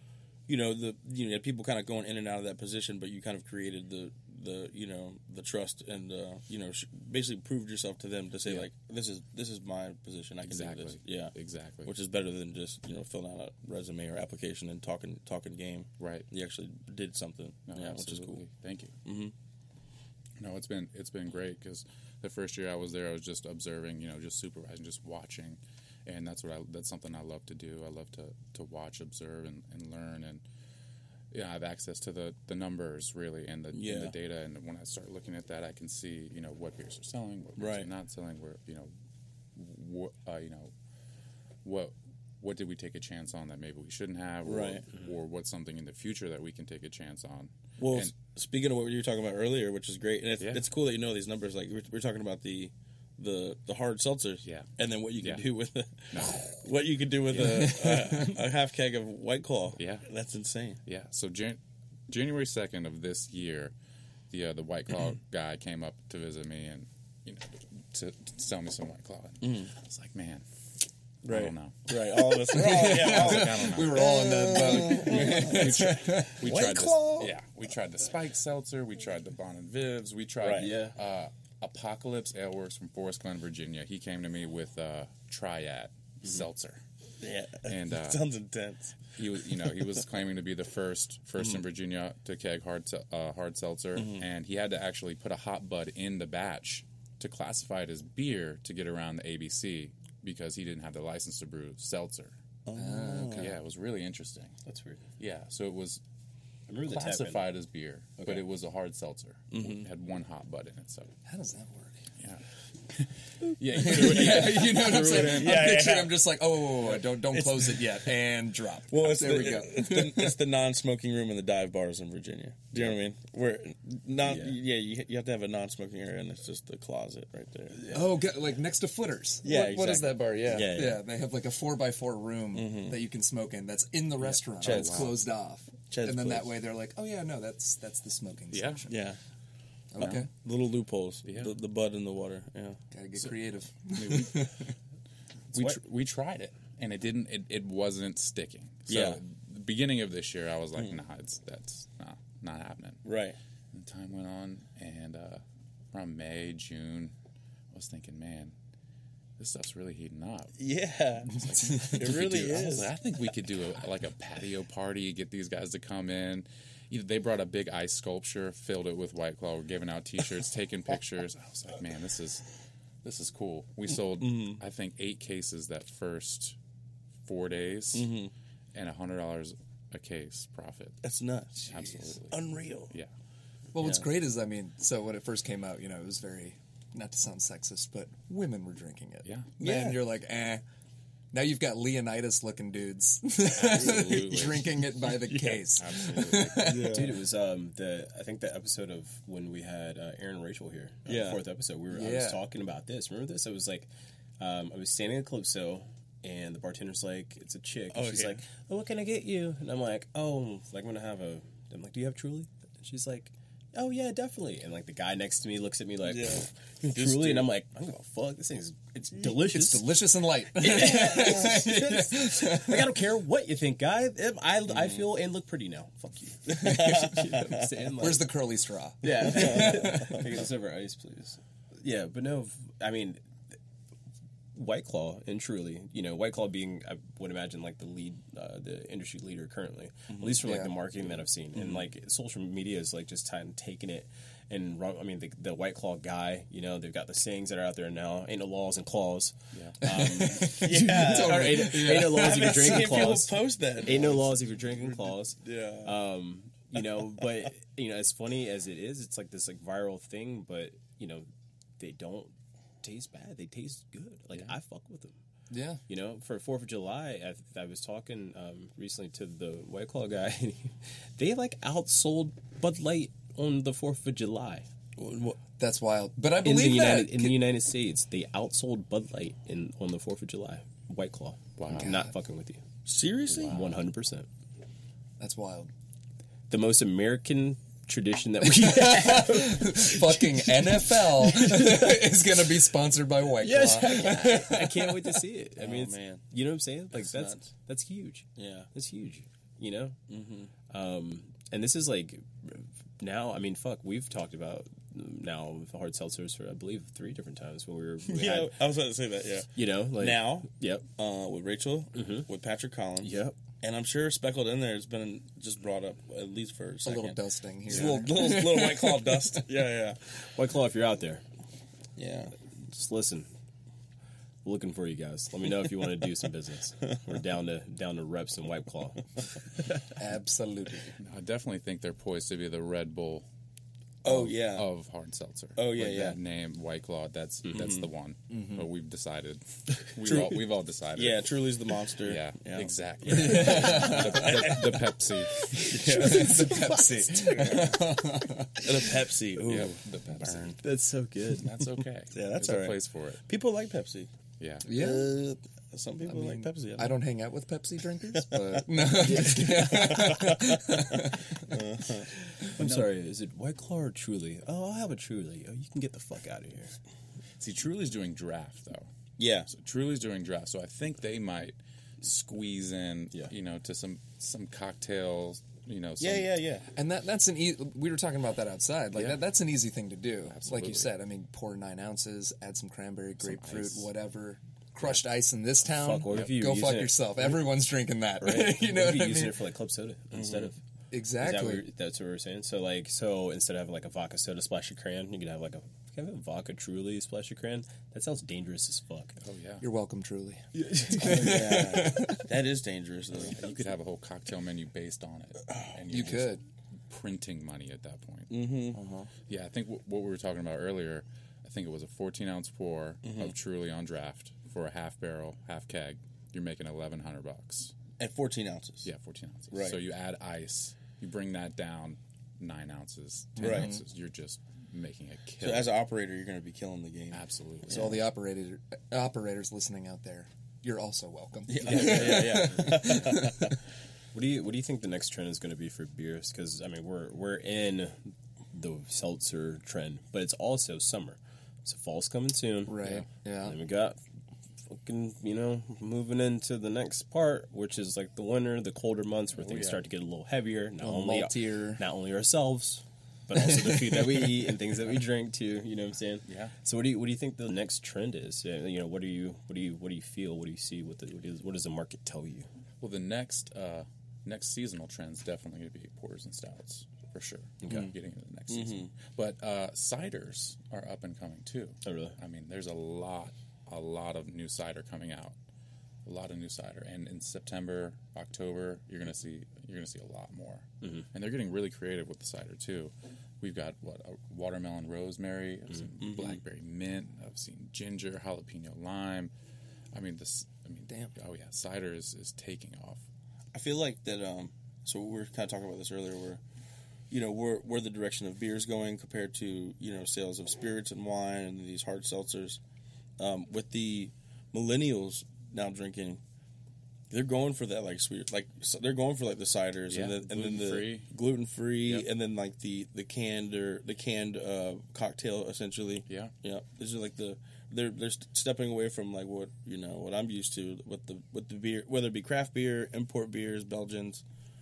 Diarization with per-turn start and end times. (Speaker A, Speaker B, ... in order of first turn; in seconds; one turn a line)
Speaker A: 0.5-18.4
Speaker B: 10.4-11.9
Speaker B: 16.0-16.3
Speaker B: 17.7-18.9
Speaker A: 19.0-19.3
Speaker B: 20.4-30.4
Speaker B: 31.3-38.9
Speaker A: 33.7-34.1
Speaker A: 37.6-37.9
Speaker B: 39.5-40.7
Speaker B: 41.6-48.1
Speaker A: 44.4-44.8
Speaker A: 47.8-60.8
Speaker B: 54.4-55.5
Speaker B: 56.1-56.5
Speaker C: 57.4-58.2
Speaker B: 59.8-60.0
Speaker B: 60.8-63.7
Speaker B: 64.3-70.4
Speaker A: 69.4-69.7
Speaker A: 71.2-77.3
Speaker B: 71.3-72.0
Speaker C: 72.3-76.6
Speaker B: 72.7-86.8
Speaker A: 80.4-80.7
Speaker D: 80.5-81.0
Speaker A: 87.2-90.0
Speaker B: 87.7-88.2
Speaker B: 89.1-102.4
Speaker A: 94.0-94.2
Speaker A: 102.7-103.5
Speaker C: 102.7-103.5
Speaker B: 103.3-104.6
Speaker D: 104.7-105.0
Speaker B: 105.2-106.0
Speaker D: 106.7-107.5
Speaker B: 106.8-111.1
Speaker D: 108.2-108.4
Speaker A: 109.5-109.8
Speaker C: 111.2-112.0
Speaker B: 112.2-115.6
Speaker C: 113.7-120.3
Speaker A: 113.8-116.2
Speaker D: 114.9-115.4
Speaker A: 116.8-118.2
Speaker A: 118.9-127.8
Speaker D: 124.2-124.5
Speaker C: 127.7-139.0
Speaker A: 129.4-131.0
Speaker A: 132.5-133.0
Speaker B: 134.2-135.1
Speaker A: 134.6-135.2
Speaker A: 135.9-136.5
Speaker B: 138.5-138.9
Speaker A: 138.9-139.2
Speaker C: 139.9-140.3
Speaker A: 140.0-142.8
Speaker B: 140.0-140.2
Speaker B: 141.2-141.5
Speaker C: 142.9-144.7
Speaker B: 143.2-144.6
Speaker B: 145.5-153.0
Speaker D: 145.5-145.8
Speaker A: 148.9-149.2
Speaker A: 153.0-153.4
Speaker B: 153.7-157.1
Speaker B: 157.7-158.6
Speaker B: 159.4-160.6
Speaker A: 160.6-162.9
Speaker B: 161.2-172.5
Speaker C: 161.6-161.9
Speaker B: 173.0-176.6
Speaker A: 174.2-174.6
Speaker B: 177.2-178.1
Speaker A: 177.9-178.3
Speaker B: 178.7-181.0
Speaker A: 181.0-182.9
Speaker B: 181.6-183.1
Speaker C: 183.7-190.6
Speaker B: 189.2-189.5
Speaker A: 189.6-190.0
Speaker C: 191.3-197.2
Speaker B: 193.5-194.7
Speaker A: 195.3-195.7
Speaker B: 195.8-196.8
Speaker A: 196.3-197.2
Speaker D: 196.9-228.4
Speaker A: 201.1-201.4
Speaker C: 201.9-202.4
Speaker A: 207.9-208.4
Speaker A: 216.0-217.5
Speaker C: 219.4-222.9
Speaker A: 220.6-221.6
Speaker A: 224.7-225.1
Speaker A: 226.5-227.7
Speaker C: 226.6-230.3
Speaker D: 229.0-233.6
Speaker A: 229.1-230.3
Speaker D: 234.5-265.2
Speaker A: 240.1-240.4
Speaker C: 240.4-240.7
Speaker B: 249.5-249.8
Speaker C: 249.8-253.1
Speaker A: 250.5-256.0
Speaker C: 265.5-265.8
Speaker D: 265.9-274.7
Speaker A: 275.0-275.4
Speaker C: 275.6-277.4
Speaker D: 276.4-282.6
Speaker B: 281.6-282.0
Speaker C: 281.7-282.1
Speaker A: 282.9-283.6
Speaker B: 283.3-283.8
Speaker D: 283.4-284.3
Speaker C: 285.2-285.7
Speaker D: 286.5-292.2
Speaker C: 288.6-295.2
Speaker D: 293.4-300.0
Speaker A: 295.6-296.2
Speaker A: 296.9-297.5
Speaker A: 298.4-298.7
Speaker A: 300.1-300.5
Speaker D: 300.7-308.6
Speaker A: 308.1-320.2
Speaker D: 309.5-310.9
Speaker D: 311.9-312.3
Speaker D: 313.0-313.4
Speaker C: 316.8-319.1
Speaker D: 317.7-318.6
Speaker D: 320.2-321.2
Speaker A: 321.9-322.4
Speaker D: 322.7-323.3
Speaker D: 324.4-329.6
Speaker C: 329.9-330.9
Speaker B: 331.0-333.3
Speaker A: 334.0-334.7
Speaker B: 334.1-341.3
Speaker A: 335.6-336.2
Speaker A: 337.5-337.9
Speaker C: 338.3-338.6
Speaker A: 340.0-345.0
Speaker B: 342.0-346.1
Speaker C: 343.1-344.5
Speaker C: 345.6-348.8
Speaker A: 345.7-347.7
Speaker D: 346.6-347.0
Speaker A: 348.6-350.6
Speaker B: 349.4-350.6
Speaker D: 350.6-351.5
Speaker B: 351.4-353.2
Speaker A: 352.1-354.1
Speaker B: 354.4-354.7
Speaker C: 354.6-355.1
Speaker A: 354.7-356.9
Speaker C: 356.0-361.5
Speaker A: 358.8-362.1
Speaker D: 359.0-360.0
Speaker D: 362.4-366.8
Speaker B: 362.6-362.9
Speaker B: 367.4-368.9
Speaker A: 369.2-369.5
Speaker B: 369.4-376.3
Speaker A: 376.0-376.6
Speaker C: 376.7-389.4
Speaker B: 378.9-379.2
Speaker B: 380.2-380.9
Speaker B: 383.2-383.9
Speaker D: 385.6-387.4
Speaker B: 386.1-386.4
Speaker D: 388.2-390.6
Speaker A: 390.1-390.5
Speaker C: 390.9-391.6
Speaker D: 391.1-399.2
Speaker B: 399.2-399.6
Speaker C: 399.6-402.2
Speaker D: 400.5-401.8
Speaker A: 401.0-403.4
Speaker B: 403.2-408.5
Speaker A: 405.5-405.7
Speaker C: 405.9-406.4
Speaker A: 408.3-408.8
Speaker C: 408.7-409.1
Speaker B: 409.2-417.8
Speaker A: 413.0-413.3
Speaker A: 418.0-418.9
Speaker B: 418.8-425.7
Speaker A: 419.5-419.8
Speaker A: 423.4-423.7
Speaker C: 423.4-423.7
Speaker A: 425.4-428.0
Speaker B: 427.1-428.0
Speaker C: 427.7-433.3
Speaker A: 431.5-433.5
Speaker B: 431.6-432.4
Speaker D: 434.1-444.0
Speaker C: 442.7-443.6
Speaker D: 444.6-462.5
Speaker B: 449.4-449.8
Speaker C: 450.8-451.8
Speaker C: 453.5-454.4
Speaker B: 456.2-456.5
Speaker B: 462.8-475.4
Speaker D: 467.6-467.9
Speaker A: 468.5-468.9
Speaker D: 471.8-472.2
Speaker B: 476.0-489.3
Speaker A: 486.0-486.4
Speaker B: 489.9-493.0
Speaker A: 493.5-496.4
Speaker A: 497.1-502.6
Speaker A: 503.2-506.2
Speaker A: 507.1-524.2
Speaker B: 509.9-511.1
Speaker B: 516.1-516.3